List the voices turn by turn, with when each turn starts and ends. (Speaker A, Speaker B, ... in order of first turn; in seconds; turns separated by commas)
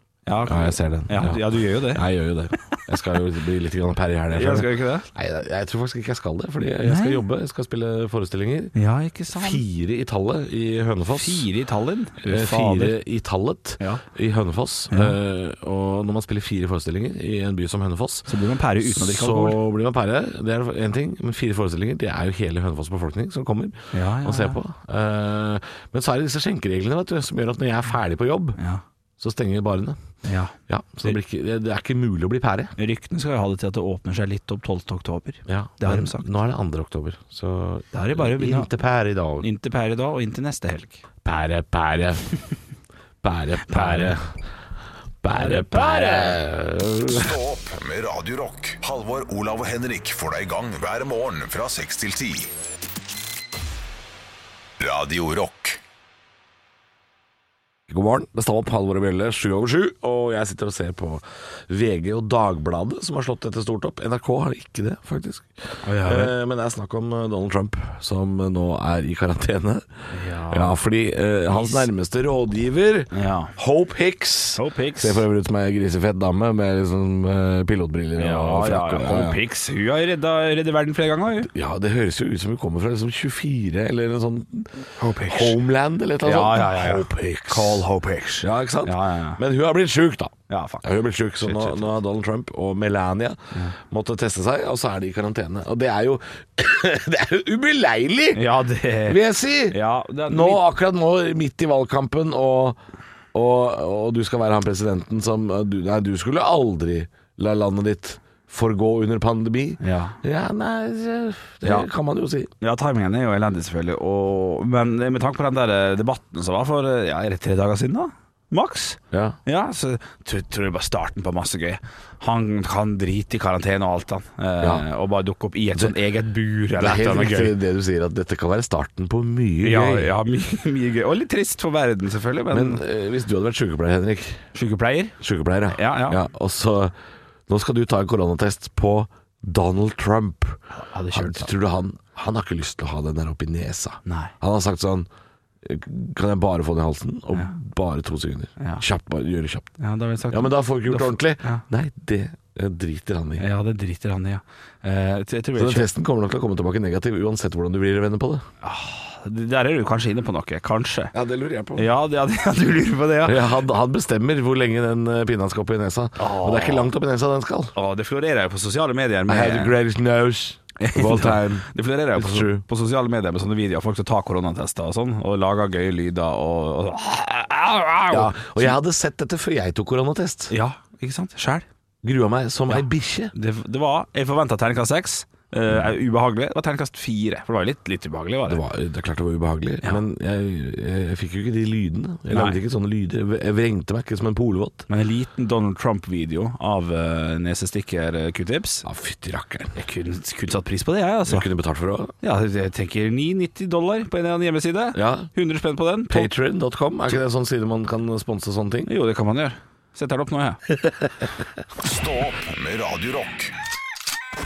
Speaker A: 0.2-2.8, Speaker B: 0.4-8.7, Speaker A: 4.3-5.1, Speaker A: 6.8-7.2, Speaker A: 8.7-9.6, Speaker B: 9.3-11.4, Speaker A: 11.1-13.0, Speaker B: 12.2-18.3, Speaker A: 14.9-15.2, Speaker A: 18.3-19.6, Speaker B: 18.8-28.6, Speaker A: 23.9-24.6, Speaker A: 28.6-28.8, Speaker B: 29.2-30.0, Speaker A: 30.2-30.5, Speaker B: 30.7-32.7, Speaker A: 32.8-36.3, Speaker B: 35.5-39.5, Speaker A: 37.9-38.7, Speaker A: 39.4-41.0, Speaker B: 41.2-42.2, Speaker B: 43.2-44.3, Speaker A: 43.7-44.1, Speaker B: 45.2-47.3, Speaker A: 45.3-46.4, Speaker C: 47.1-52.5, Speaker C: 54.8-55.8, Speaker B: 57.9-69.8, Speaker A: 65.8-66.3, Speaker A: 70.1-70.8, Speaker B: 70.5-79.4, Speaker A: 71.5-71.8, Speaker A: 73.1-73.5, Speaker A: 74.5-75.2, Speaker A: 78.2-81.5, Speaker B: 81.5-87.8, Speaker A: 85.0-85.6, Speaker A: 86.2-89.4, Speaker B: 88.4-98.4, Speaker A: 90.5-92.0, Speaker A: 98.3-100.6, Speaker B: 99.1-102.8, Speaker B: 103.3-112.5, Speaker A: 109.8-110.2, Speaker A: 111.6-111.9, Speaker A: 112.6-127.5, Speaker B: 119.1-119.4, Speaker B: 126.8-130.1, Speaker A: 129.6-132.8, Speaker B: 132.5-134.4, Speaker A: 134.5-135.2, Speaker B: 135.2-136.9, Speaker A: 135.7-136.2, Speaker B: 137.5-140.6, Speaker A: 140.7-141.5, Speaker B: 141.1-145.1, Speaker A: 144.1-144.3, Speaker B: 145.6-149.7, Speaker A: 149.8-151.6, Speaker B: 150.3-153.4, Speaker A: 153.4-155.9, Speaker B: 155.6-158.4, Speaker A: 158.6-161.1, Speaker B: 161.1-161.9, Speaker A: 161.8-163.4, Speaker B: 163.2-167.7, Speaker A: 166.2-166.9, Speaker A: 167.7-169.8, Speaker B: 169.3-172.6, Speaker A: 170.8-178.8, Speaker B: 178.1-180.5, Speaker A: 180.5-181.7, Speaker B: 182.0-183.3, Speaker A: 182.7-188.6, Speaker B: 188.5-194.8, Speaker A: 192.3-192.6, Speaker A: 194.9-198.8, Speaker B: 198.8-199.8, Speaker A: 199.7-201.5, Speaker B: 201.3-202.1, Speaker A: 202.2-206.3, Speaker B: 204.9-205.3, Speaker B: 206.1-208.9, Speaker A: 208.8-210.6, Speaker C: 211.8-213.5